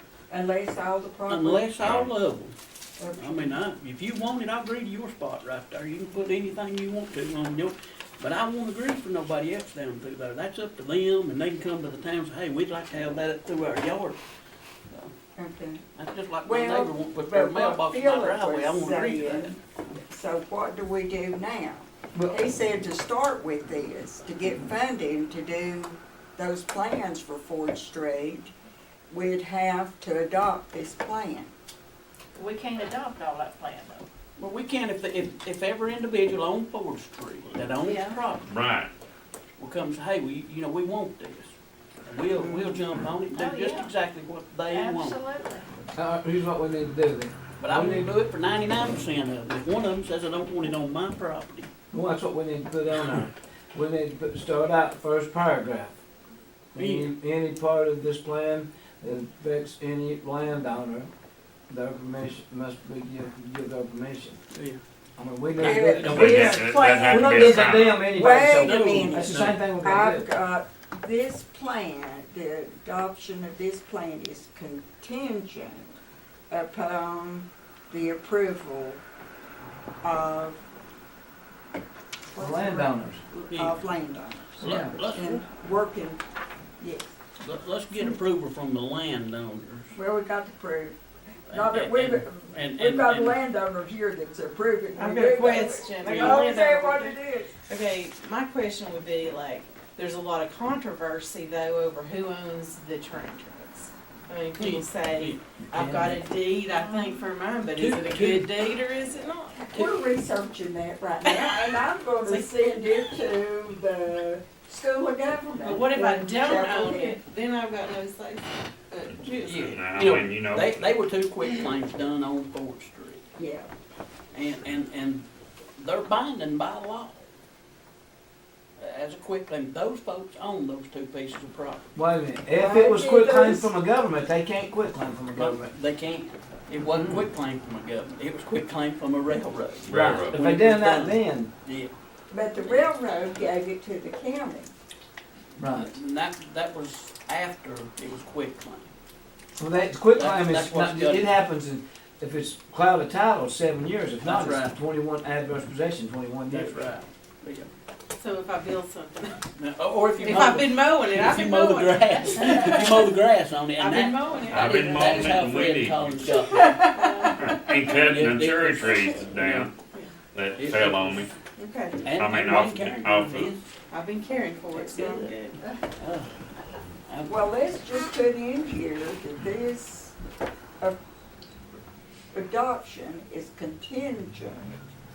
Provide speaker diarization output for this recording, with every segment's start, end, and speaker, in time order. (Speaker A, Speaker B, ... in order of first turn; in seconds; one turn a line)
Speaker A: 0.3-1.6
Speaker B: 1.3-2.5
Speaker C: 1.7-2.1
Speaker A: 3.0-3.5
Speaker B: 3.2-14.2
Speaker A: 15.3-15.8
Speaker B: 15.9-20.0
Speaker A: 16.4-28.5
Speaker A: 29.1-31.5
Speaker D: 32.4-34.0
Speaker B: 34.4-38.5
Speaker E: 37.8-38.2
Speaker C: 38.5-38.9
Speaker B: 39.6-41.5
Speaker B: 42.0-45.2
Speaker A: 42.4-42.8
Speaker D: 43.3-43.9
Speaker D: 44.7-45.7
Speaker F: 45.9-48.1
Speaker B: 47.6-51.7
Speaker F: 51.9-56.0
Speaker F: 56.7-61.1
Speaker B: 56.8-57.1
Speaker F: 61.7-64.4
Speaker B: 64.5-64.8
Speaker F: 65.2-70.3
Speaker B: 65.6-67.1
Speaker A: 65.6-76.0
Speaker C: 66.0-68.0
Speaker B: 68.5-69.6
Speaker A: 76.5-79.0
Speaker A: 80.0-80.6
Speaker A: 82.3-86.2
Speaker F: 82.4-83.2
Speaker B: 83.5-83.8
Speaker F: 84.6-85.0
Speaker B: 84.6-85.4
Speaker A: 86.8-87.1
Speaker B: 87.4-89.9
Speaker A: 89.9-90.9
Speaker B: 91.5-93.4
Speaker A: 91.5-97.5
Speaker E: 94.9-109.6
Speaker B: 96.0-96.4
Speaker B: 104.6-105.4
Speaker F: 105.7-106.2
Speaker B: 107.7-108.5
Speaker A: 109.6-117.2
Speaker E: 111.2-113.1
Speaker E: 115.6-119.8
Speaker C: 119.4-120.9
Speaker B: 119.9-123.2
Speaker A: 123.4-123.7
Speaker B: 124.3-125.2
Speaker B: 125.8-127.2
Speaker B: 128.8-132.0
Speaker F: 131.9-135.7
Speaker A: 132.5-133.7
Speaker B: 135.3-141.9
Speaker C: 139.8-140.3
Speaker F: 139.9-141.5
Speaker A: 142.3-144.7
Speaker B: 142.7-143.1
Speaker F: 145.6-145.9
Speaker B: 145.6-148.9
Speaker F: 149.6-156.9
Speaker B: 150.1-151.3
Speaker B: 154.2-154.8
Speaker B: 156.5-157.7
Speaker E: 158.2-159.4
Speaker B: 159.6-166.7
Speaker E: 160.2-163.1
Speaker E: 163.8-165.5
Speaker C: 164.5-166.6
Speaker E: 166.4-167.5
Speaker C: 167.2-169.7
Speaker B: 168.0-169.7
Speaker C: 170.3-171.3
Speaker B: 170.6-171.3
Speaker E: 171.5-172.0
Speaker B: 172.0-173.6
Speaker C: 172.1-173.5
Speaker E: 173.9-175.6
Speaker A: 174.7-175.3
Speaker B: 175.0-175.3
Speaker B: 176.0-176.3
Speaker B: 177.1-177.5
Speaker A: 177.2-180.1
Speaker A: 182.3-184.8